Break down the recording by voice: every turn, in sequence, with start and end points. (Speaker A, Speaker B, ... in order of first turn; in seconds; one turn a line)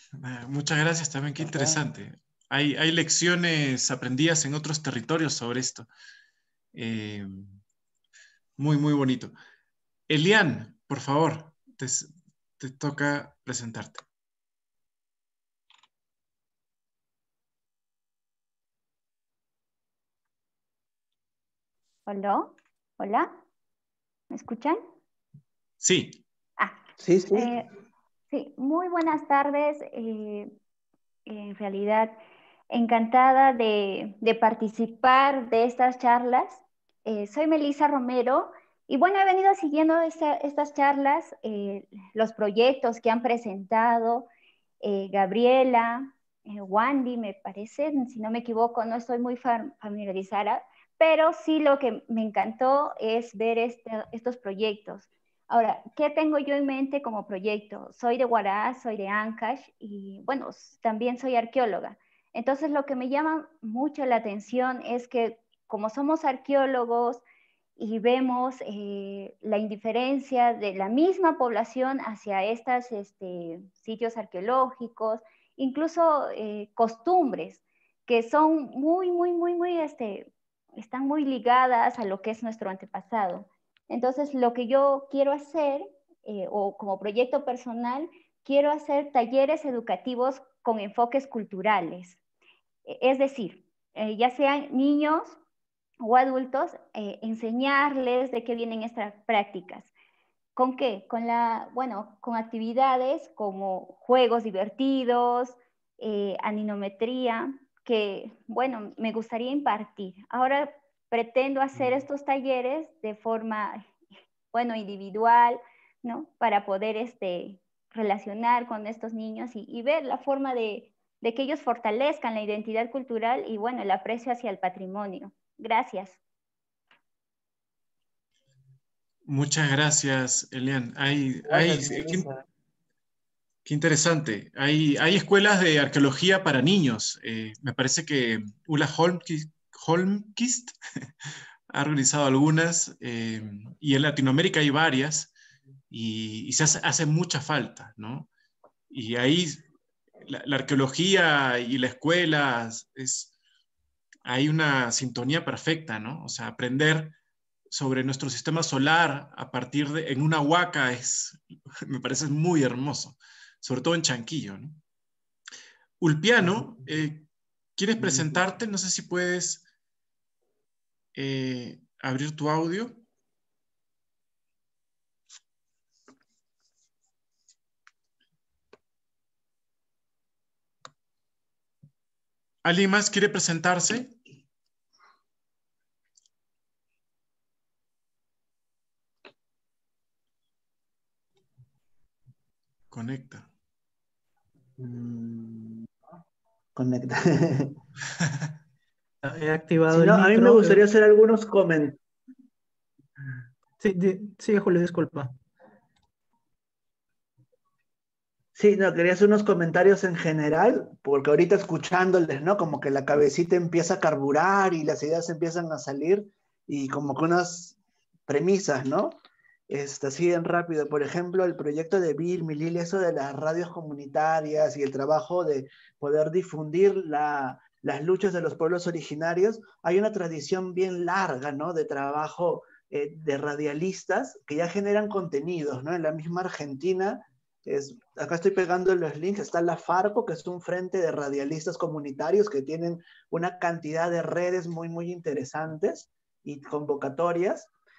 Speaker A: 0.2-5.9
Speaker A: 6.7-7.6
Speaker A: 8.6-9.4
Speaker A: 10.1-14.0
Speaker B: 22.1-23.4
Speaker B: 24.3-24.8
Speaker A: 25.8-26.2
Speaker C: 27.0-27.5
Speaker B: 27.3-27.7
Speaker B: 28.3-30.5
Speaker B: 31.3-44.3
Speaker B: 44.8-67.2
Speaker B: 67.8-92.2
Speaker B: 92.9-95.4
Speaker B: 96.0-99.9
Speaker B: 100.6-113.8
Speaker B: 114.5-126.2
Speaker A: 129.3-132.3
Speaker C: 131.5-132.4
Speaker A: 133.7-140.8
Speaker A: 141.7-145.3
Speaker A: 145.9-148.3
Speaker A: 148.9-149.6
Speaker A: 150.2-153.3
Speaker A: 154.2-157.2
Speaker A: 157.7-164.8
Speaker A: 166.0-167.3
Speaker A: 167.8-169.7
Speaker C: 168.0-168.4
Speaker A: 171.2-173.0
Speaker A: 182.6-184.2
Speaker A: 192.9-193.5
Speaker C: 194.8-195.9
Speaker C: 196.8-197.8
Speaker D: 199.2-200.8
Speaker C: 199.9-202.0
Speaker D: 203.8-205.3
Speaker C: 208.6-217.8
Speaker C: 218.3-219.2
Speaker C: 219.7-247.7